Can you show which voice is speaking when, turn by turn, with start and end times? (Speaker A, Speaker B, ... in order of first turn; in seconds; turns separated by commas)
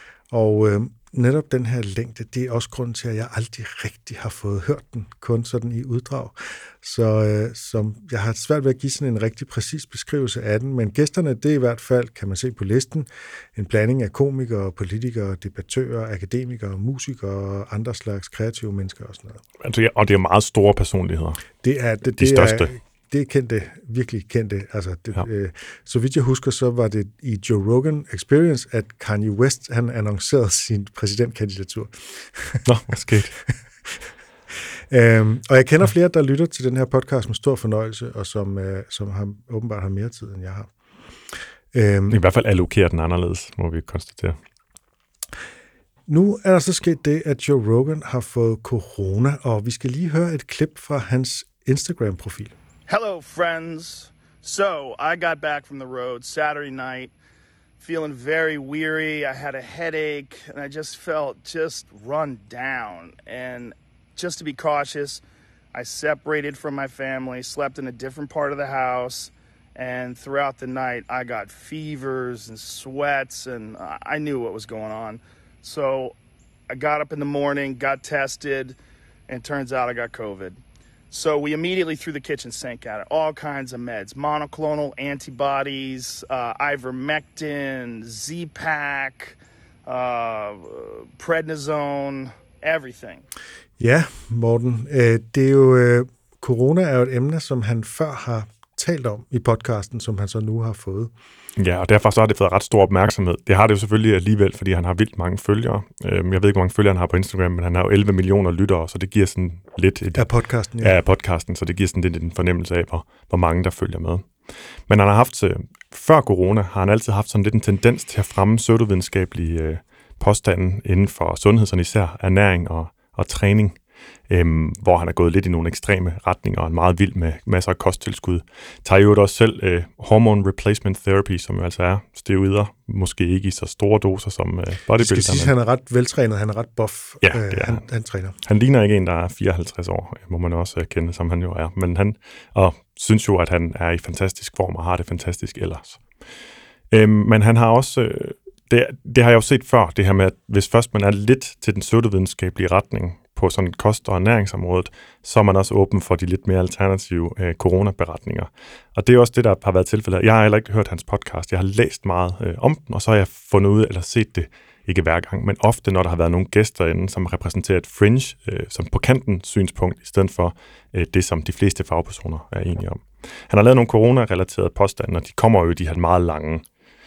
Speaker A: 0.3-19.4, Speaker B: 19.6-21.4, Speaker A: 21.6-32.6, Speaker B: 22.2-22.7, Speaker B: 32.6-33.4, Speaker A: 34.9-40.7, Speaker A: 41.7-42.2, Speaker B: 42.1-44.4, Speaker A: 46.1-52.5, Speaker C: 52.9-57.1, Speaker C: 57.8-65.2, Speaker C: 65.7-76.2, Speaker C: 76.7-80.6, Speaker C: 81.1-93.2, Speaker A: 93.8-101.1, Speaker B: 101.5-110.3, Speaker A: 110.1-111.0, Speaker B: 110.8-114.3, Speaker B: 114.9-135.5, Speaker A: 135.0-138.3, Speaker B: 137.2-137.8, Speaker B: 138.4-146.0, Speaker B: 146.9-176.6